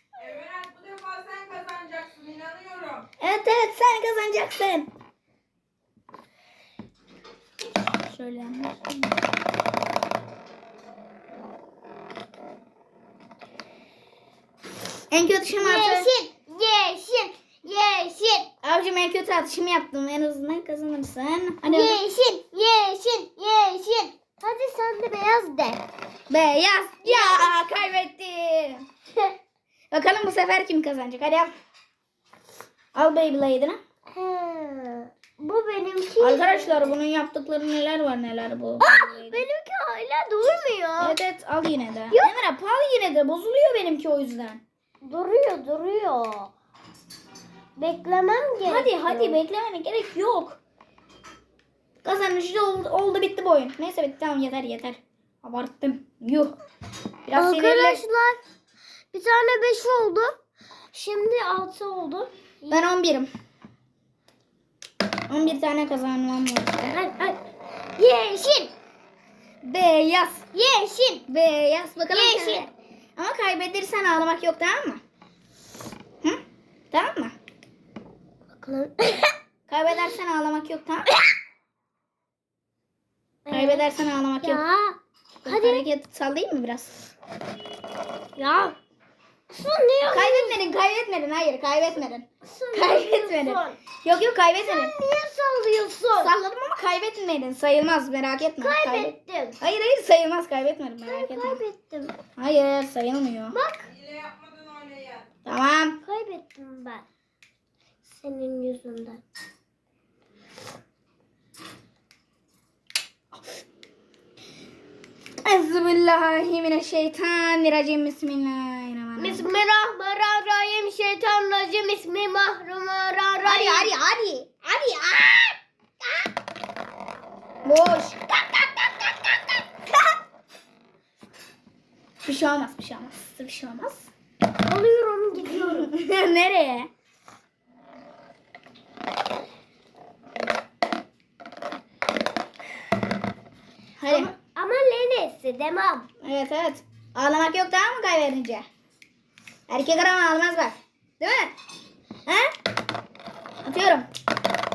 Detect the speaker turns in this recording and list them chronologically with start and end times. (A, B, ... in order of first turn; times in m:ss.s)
0:00.7-0:02.8 A
0:03.2-0:04.9 B
0:08.0-0:09.1 B
0:15.1-0:16.1 B
0:15.6-0:18.5 C
0:18.6-0:22.0 B
0:21.6-0:25.8 C
0:26.3-0:28.8 B
0:27.0-0:27.8 C
0:29.9-0:31.5 B
0:33.0-0:33.8 B
0:34.1-0:37.0 C
0:36.2-0:39.5 B
0:38.8-0:41.2 C
0:41.0-0:44.6 B
0:45.0-0:46.5 C
0:47.8-0:49.4 C
0:48.6-0:50.6 B
0:52.0-0:56.6 B
0:57.3-0:58.0 B
0:57.4-0:58.4 C
0:59.1-1:00.4 C
1:00.9-1:02.9 C
1:02.7-1:03.3 B
1:05.3-1:07.0 B
1:06.9-1:07.4 C
1:08.0-1:08.7 C
1:09.6-1:10.4 B
1:10.5-1:11.3 C
1:11.3-1:15.0 B
1:12.1-1:12.7 C
1:16.2-1:17.4 B
1:18.5-1:19.4 C
1:19.7-1:21.1 B
1:23.4-1:23.9 C
1:23.5-1:24.6 B
1:24.4-1:25.9 C
1:25.4-1:27.0 B
1:28.4-1:28.8 C
1:29.5-1:30.6 C
1:30.1-1:34.9 B
1:32.4-1:33.8 C
1:34.6-1:36.3 C
1:36.2-1:41.6 B
1:38.6-1:39.6 C
1:41.0-1:42.2 C
1:42.4-1:43.6 B
1:43.5-1:43.9 C
1:45.4-1:46.0 B
1:46.0-1:47.0 C
1:48.1-1:49.2 C
1:55.4-1:59.4 B
1:59.2-2:03.9 C
2:03.5-2:04.6 B
2:04.6-2:06.3 C
2:07.6-2:09.2 B
2:12.2-2:14.1 B
2:14.6-2:15.9 C
2:15.4-2:16.9 B
2:24.0-2:24.3 B
2:24.1-2:26.1 C
2:26.2-2:28.7 B
2:29.7-2:31.5 B
2:32.3-2:32.5 B
2:33.6-2:34.1 B